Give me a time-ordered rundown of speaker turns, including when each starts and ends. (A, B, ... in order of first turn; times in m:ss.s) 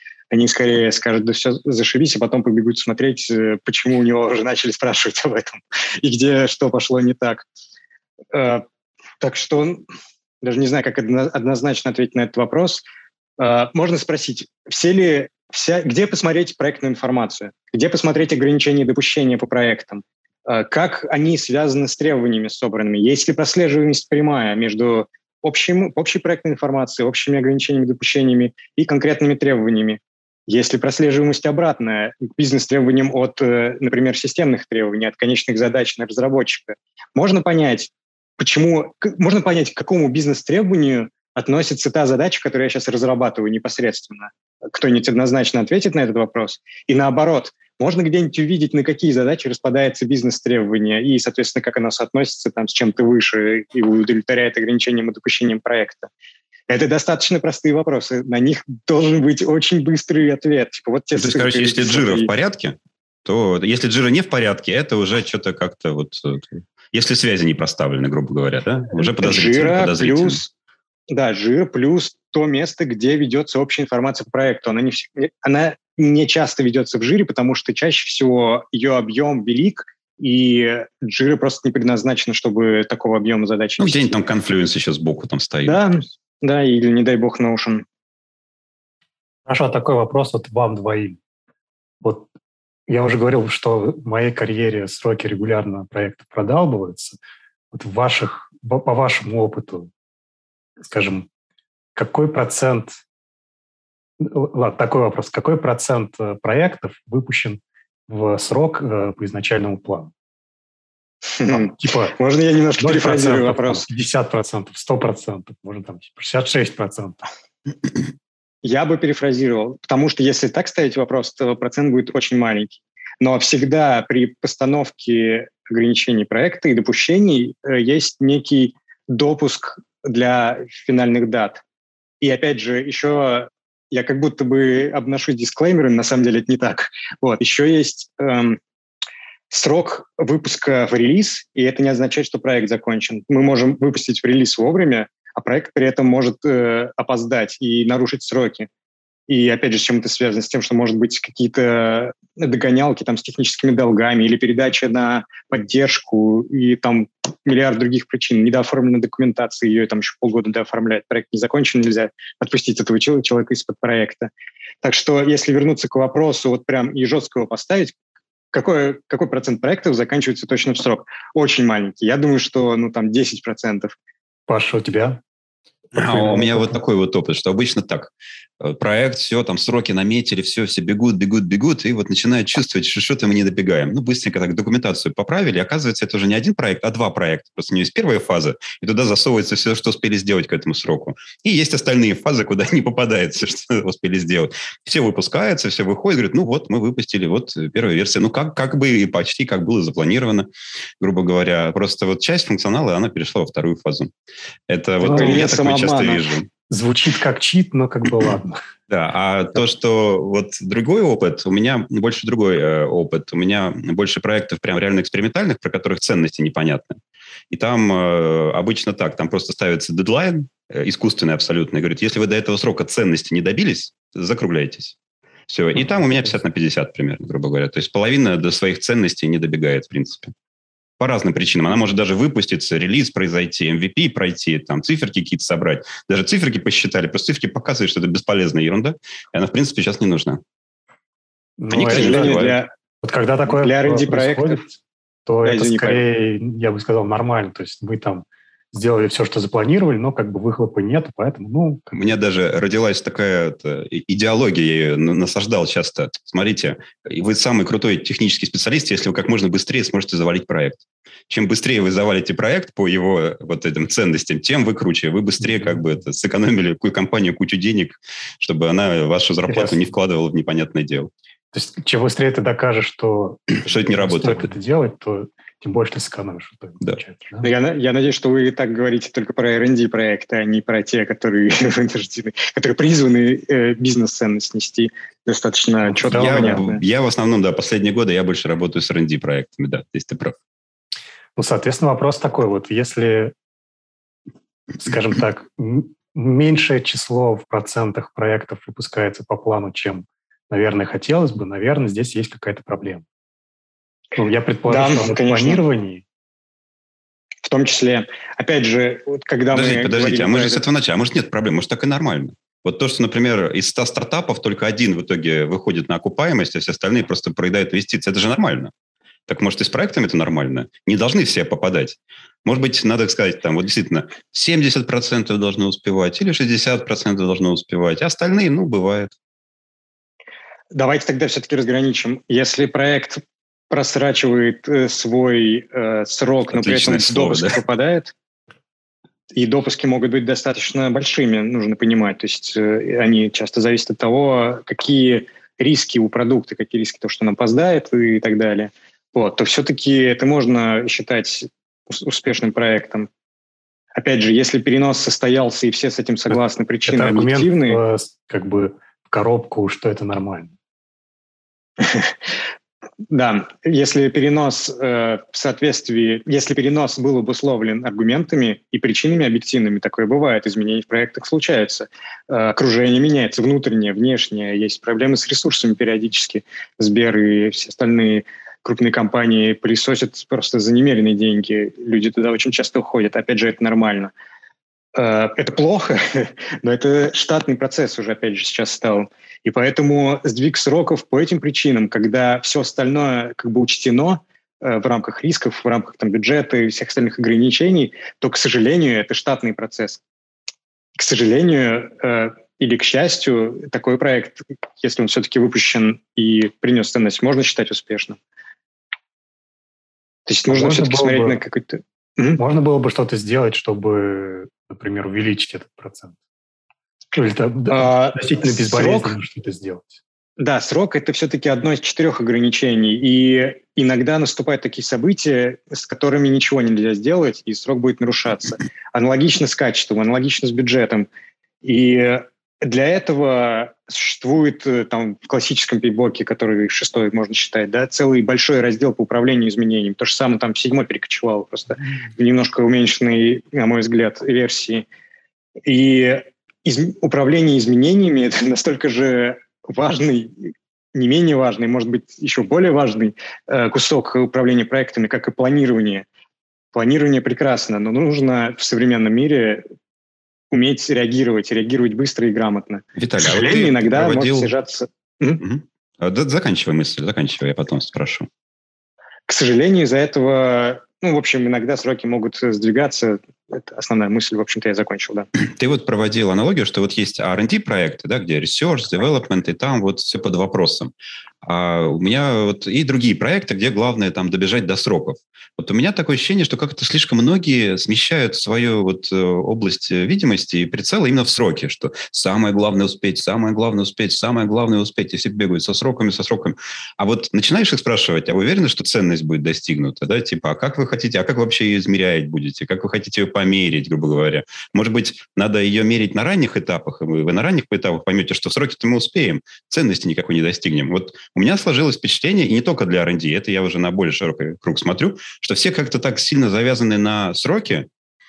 0:00.3-0:07.4 A
0:08.3-0:08.6 A
0:09.2-0:09.8 A
0:10.4-0:12.8 A
0:13.4-0:56.1 A
0:56.7-1:02.3 A
1:01.2-1:10.4 B
1:09.0-1:10.5 A
1:11.1-1:24.2 A
1:23.8-1:25.8 B
1:25.6-1:27.8 A
1:29.5-1:31.2 C
1:32.0-1:32.3 C
1:32.9-1:37.2 C
1:37.7-1:39.9 C
1:40.8-1:41.3 C
1:42.0-1:43.0 C
1:44.2-1:50.1 C
1:51.4-1:53.9 A
1:51.5-1:52.2 C
1:52.8-1:57.2 C
1:58.6-2:11.6 A
2:12.2-2:18.6 A
2:19.5-2:28.7 A
2:29.3-2:44.3 A
2:44.8-2:47.9 A
2:48.5-2:53.9 A
2:54.5-2:55.2 C
2:56.0-2:56.8 C
2:56.0-3:20.5 B
3:21.0-3:24.1 B
3:24.7-3:26.5 B
3:25.0-3:25.5 C
3:25.1-3:26.3 A
3:26.7-3:28.6 C
3:28.9-3:37.0 B
3:37.5-3:45.0 B
3:45.5-3:50.3 B
3:51.0-4:00.4 B
4:01.6-4:11.9 C
4:01.7-4:02.6 B
4:01.8-4:02.7 A
4:03.5-4:04.6 A
4:05.4-4:06.0 A
4:11.9-4:31.1 B
4:29.5-4:29.8 C
4:31.5-4:37.5 C
4:33.6-4:34.5 B
4:37.4-4:46.8 A
4:45.9-4:46.6 C
4:46.1-4:50.4 B
4:51.4-4:53.3 C
4:54.8-5:03.0 C
5:04.2-5:06.0 C
5:04.7-5:05.6 A
5:07.4-5:10.6 A
5:09.5-5:18.7 B
5:19.3-5:29.1 B
5:30.7-5:38.1 A
5:36.5-5:37.6 B
5:39.3-5:53.1 A
5:54.0-5:57.8 A
5:56.3-6:00.5 C
6:01.8-6:02.1 A
6:03.1-6:24.1 A
6:25.0-6:40.0 A
6:41.0-6:48.2 A
6:50.3-6:52.4 A
6:50.5-6:51.4 C
6:52.4-6:56.2 C
6:57.1-6:59.9 C
6:57.7-6:59.2 A
7:00.4-7:11.1 A
7:11.6-7:24.9 A
7:25.7-7:36.1 A
7:36.7-7:39.6 A
7:40.5-7:45.4 A
7:43.0-7:44.5 B
7:45.4-7:48.3 B
7:49.3-7:55.3 A
7:55.4-8:00.9 B
8:01.4-8:37.9 B